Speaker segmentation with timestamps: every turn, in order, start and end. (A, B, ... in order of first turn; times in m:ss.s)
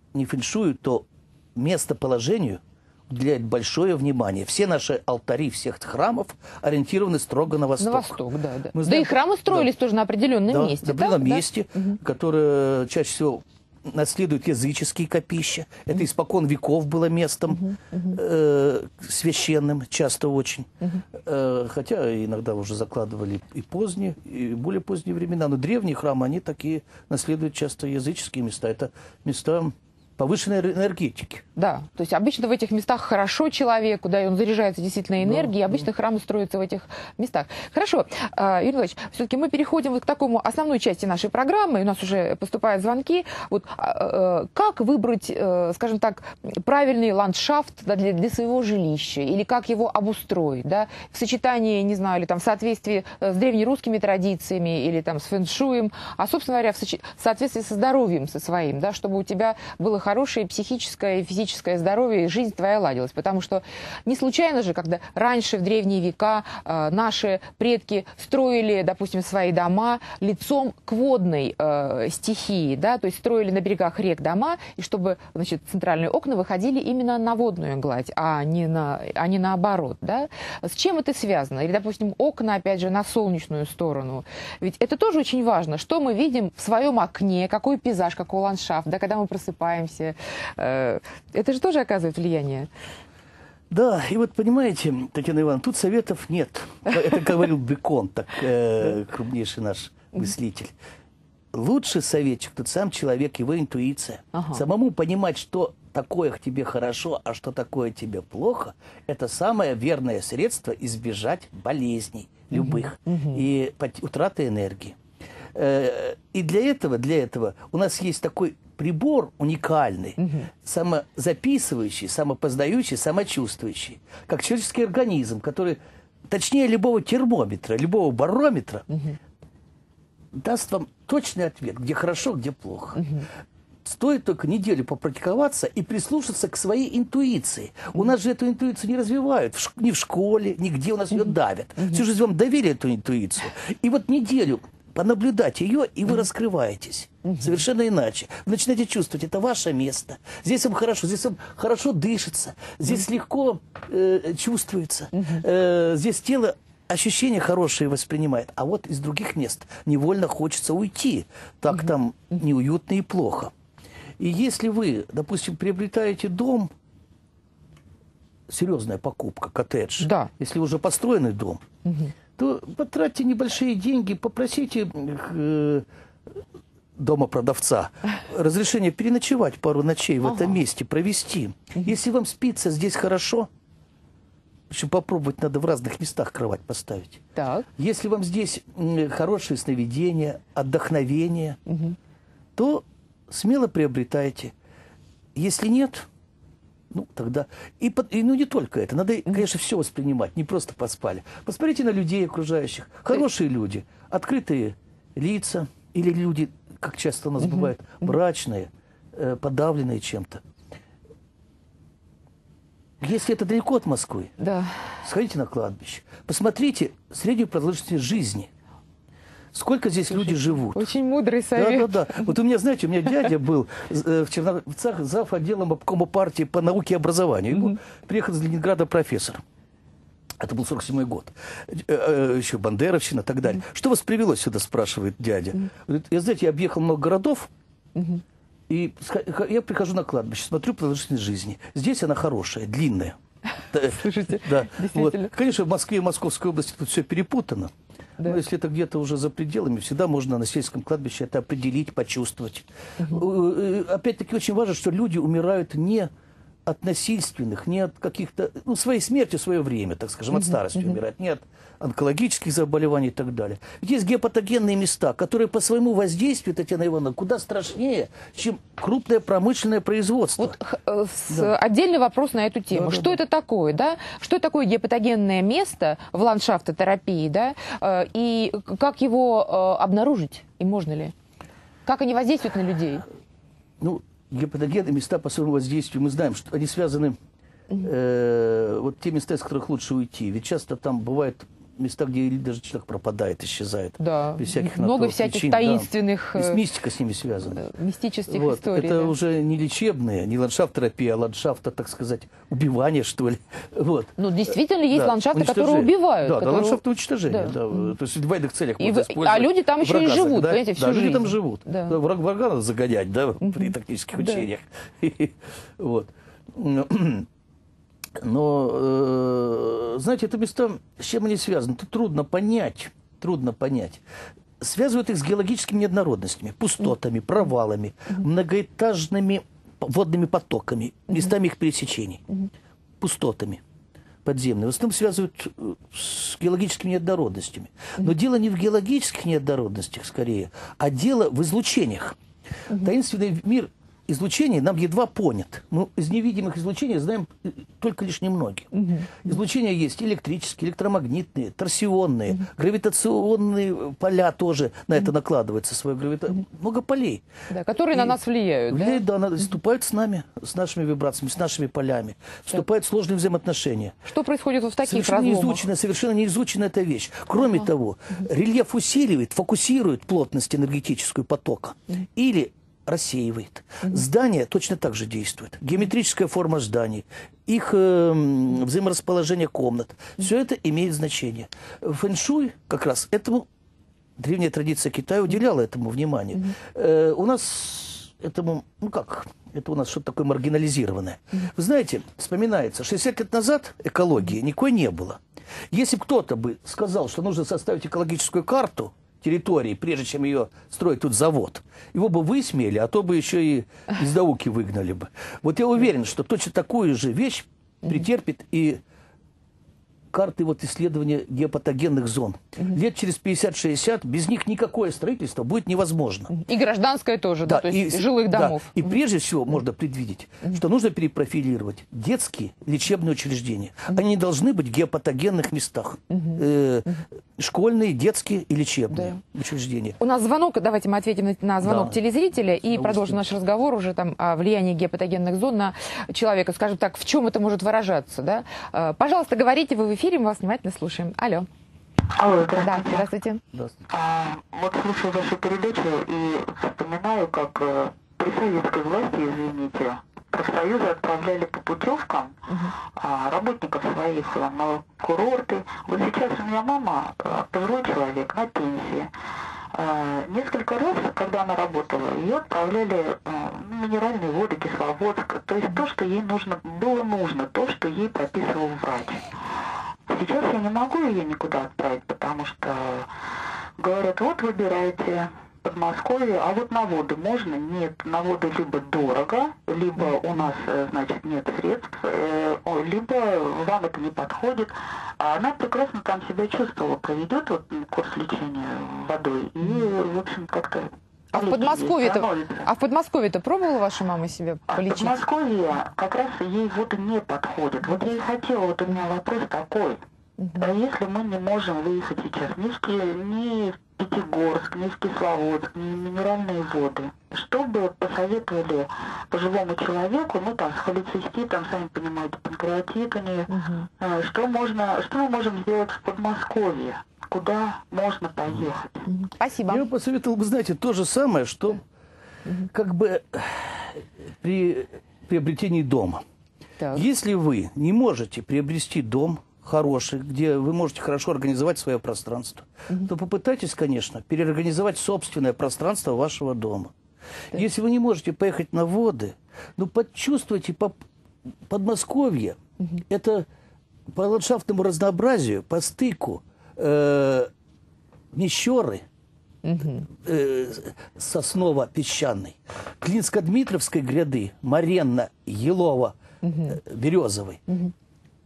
0:00.1-0:08.2 A
0:07.8-0:12.0 B
0:08.7-0:09.7 A
0:10.5-0:31.4 A
0:17.6-0:18.2 B
0:31.6-1:32.7 B
0:35.2-0:35.6 A
1:33.7-1:40.7 A
1:41.5-1:55.0 A
1:44.3-1:44.6 B
1:52.5-1:53.4 B
1:55.5-2:05.8 A
2:00.2-2:00.5 B
2:06.3-2:08.9 A
2:08.9-2:09.2 B
2:10.4-2:13.2 A
2:13.0-2:13.3 B
2:13.8-2:43.5 A
2:27.2-2:27.6 B
2:35.2-2:35.4 B
2:44.2-2:46.7 A
2:48.5-2:51.6 A
2:50.0-2:50.3 B
2:51.8-2:52.1 B
2:52.4-2:55.8 A
2:57.0-3:03.5 A
3:00.3-3:00.6 B
3:04.7-3:07.2 A
3:07.4-3:07.7 B
3:07.8-3:11.6 A
3:11.7-3:12.0 B
3:12.6-3:14.5 A
3:15.4-3:16.1 A
3:16.9-3:30.4 A
3:27.4-3:27.7 B
3:33.0-3:34.4 A
3:34.4-3:34.8 B
3:35.0-3:38.5 A
3:39.5-3:40.9 A
3:40.2-3:42.3 B
3:41.5-3:49.4 A
3:47.5-3:47.8 B
3:50.4-3:57.5 A
3:58.0-3:58.2 B
3:58.7-4:03.2 A
4:03.7-4:07.7 A
4:03.9-4:05.3 B
4:08.2-4:16.1 A
4:16.7-4:30.6 A
4:30.4-4:41.1 B
4:32.7-4:33.2 A
4:41.9-4:43.0 B
4:43.8-4:47.2 A
4:47.8-4:57.6 A
4:54.0-4:56.6 B
4:57.5-4:59.2 B
4:58.3-5:04.2 A
5:04.2-5:07.9 B
5:04.9-5:17.3 A
5:08.8-5:12.0 B
5:13.4-5:14.4 B
5:18.2-5:24.0 A
5:24.6-5:32.2 A
5:33.0-5:33.6 A
5:34.2-5:42.2 A
5:42.7-5:57.2 A
5:48.7-5:49.2 B
5:57.5-5:59.0 B
5:57.9-5:58.2 A
5:58.7-6:04.0 A
6:04.1-6:05.6 B
6:04.8-6:23.5 A
6:24.2-6:48.8 A
6:50.1-6:56.4 A
6:56.3-6:58.9 B
6:57.5-7:10.0 A
7:06.1-7:06.4 B
7:10.0-7:21.5 B
7:11.6-7:12.0 A
7:12.7-7:13.2 A
7:22.2-7:23.0 C
7:22.6-7:23.4 B
7:23.9-7:39.1 C
7:39.7-7:49.3 C
7:50.1-7:53.1 C
7:53.8-8:12.7 C
8:11.3-8:15.2 B
8:14.7-8:20.0 C
8:20.4-8:20.7 B
8:20.6-8:39.1 C
8:33.5-8:33.9 B
8:39.1-8:39.9 B
8:39.7-8:41.8 A
8:42.7-8:46.2 A
8:46.9-8:56.9 A
8:57.5-9:01.0 A
9:01.7-9:02.6 A
9:03.1-9:03.5 A
9:04.1-9:07.5 A
9:08.3-9:09.0 A
9:09.6-9:10.1 B
9:10.1-9:16.2 A
9:16.4-9:16.8 B
9:16.7-9:17.6 A